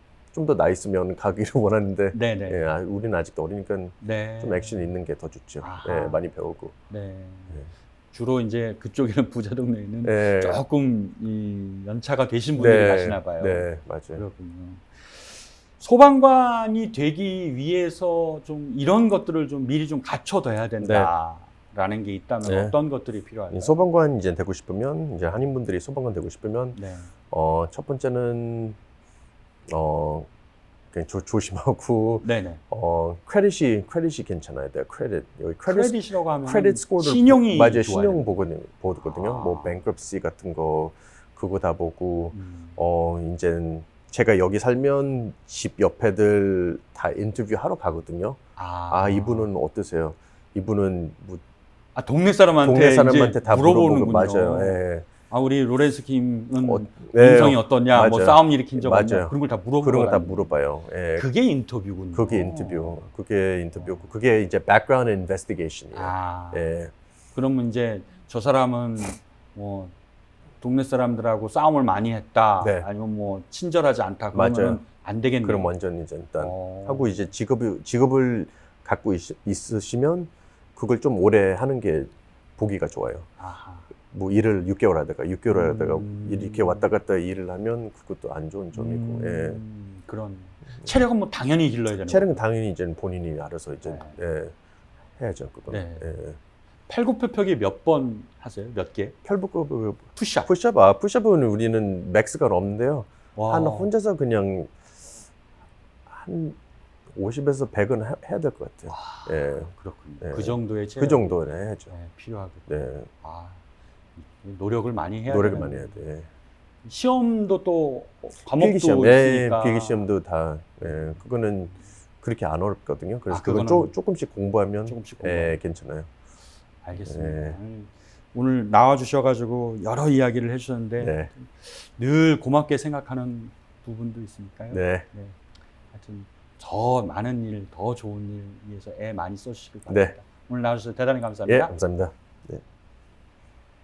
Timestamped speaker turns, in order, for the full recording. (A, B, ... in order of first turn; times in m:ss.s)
0:00.3-0:06.7 A
0:02.1-0:02.6 B
0:04.0-0:04.9 B
0:05.6-0:06.2 B
0:06.9-0:23.8 B
0:10.0-0:10.6 A
0:12.6-0:14.2 A
0:20.8-0:21.1 A
0:22.4-0:22.8 A
0:23.5-0:28.8 A
0:26.7-0:27.1 B
0:29.7-0:30.3 A
0:30.9-0:51.4 A
0:32.2-0:32.6 B
0:35.6-0:38.4 B
0:39.0-0:39.8 B
0:42.3-0:42.8 B
0:48.6-0:49.5 B
0:52.0-1:00.6 B
0:52.6-0:55.0 A
0:56.6-1:01.3 A
1:01.2-1:03.1 B
1:02.1-1:06.9 A
1:03.8-1:04.0 B
1:05.9-1:06.7 B
1:07.3-1:09.9 B
1:10.6-1:15.7 B
1:12.6-1:12.9 A
1:14.3-1:14.8 A
1:15.4-1:23.3 A
1:16.4-1:17.3 B
1:23.4-1:23.9 B
1:24.1-1:29.6 A
1:25.5-1:26.9 B
1:28.7-1:32.4 B
1:32.0-1:34.5 A
1:33.8-1:34.2 B
1:35.2-1:36.4 A
1:35.7-1:36.0 B
1:36.9-1:39.2 B
1:39.2-1:44.7 A
1:40.1-1:40.5 B
1:43.4-1:43.9 B
1:46.1-1:46.6 A
1:47.1-1:49.7 A
1:48.9-1:51.3 B
1:50.2-1:51.9 A
1:51.9-1:53.6 B
1:52.7-1:53.1 A
1:54.2-1:56.0 B
1:55.3-1:56.3 A
1:56.8-2:00.1 B
1:58.5-2:06.1 A
2:00.8-2:01.1 B
2:03.3-2:03.9 B
2:04.9-2:05.6 B
2:06.8-2:15.4 B
2:07.0-2:07.6 A
2:11.0-2:11.3 A
2:14.7-2:15.0 A
2:15.9-2:21.7 B
2:19.9-2:20.1 A
2:21.5-2:22.6 A